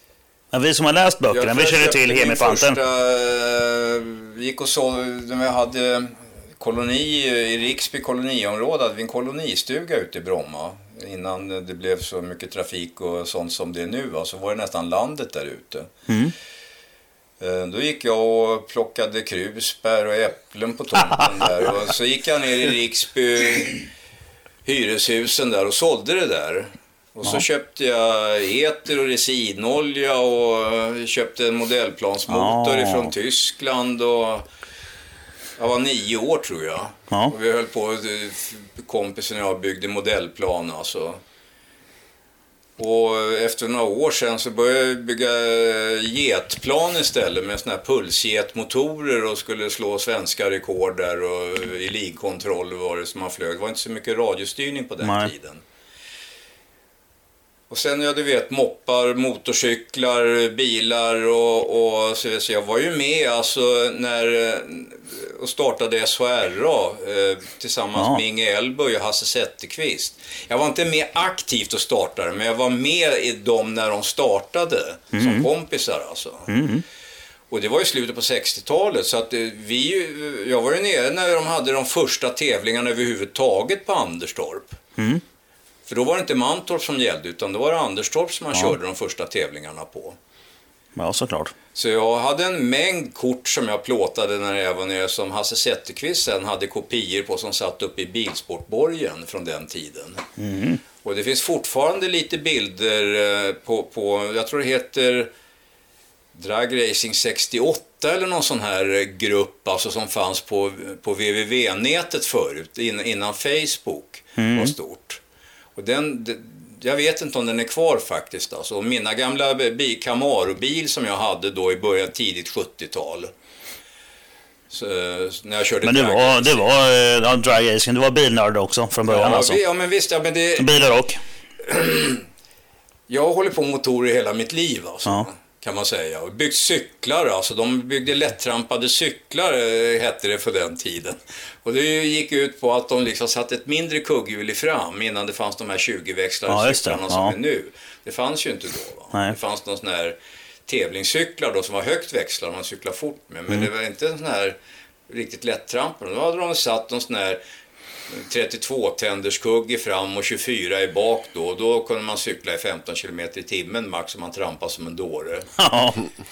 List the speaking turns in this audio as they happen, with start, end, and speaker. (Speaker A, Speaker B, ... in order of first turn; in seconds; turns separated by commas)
Speaker A: 0.5-2.8, Speaker B: 1.3-15.9, Speaker A: 16.1-16.3, Speaker B: 17.4-23.9, Speaker B: 24.6-34.5, Speaker A: 32.3-33.1, Speaker B: 35.6-41.2, Speaker B: 42.8-55.6, Speaker A: 55.0-55.3, Speaker B: 57.7-76.5, Speaker A: 75.2-75.5, Speaker A: 76.5-76.8, Speaker B: 77.5-84.8, Speaker B: 85.9-90.2, Speaker A: 91.0-91.5, Speaker B: 91.7-100.2, Speaker A: 100.4-100.8, Speaker B: 101.0-105.3, Speaker B: 106.3-115.2, Speaker A: 114.4-114.7, Speaker B: 115.8-123.3, Speaker B: 124.7-126.6, Speaker A: 125.8-129.6, Speaker B: 129.1-130.7, Speaker A: 130.6-131.2, Speaker B: 131.6-132.2, Speaker B: 133.1-150.2, Speaker A: 146.5-147.3, Speaker B: 150.7-154.6, Speaker B: 155.1-157.4, Speaker B: 158.1-165.5, Speaker A: 165.6-166.0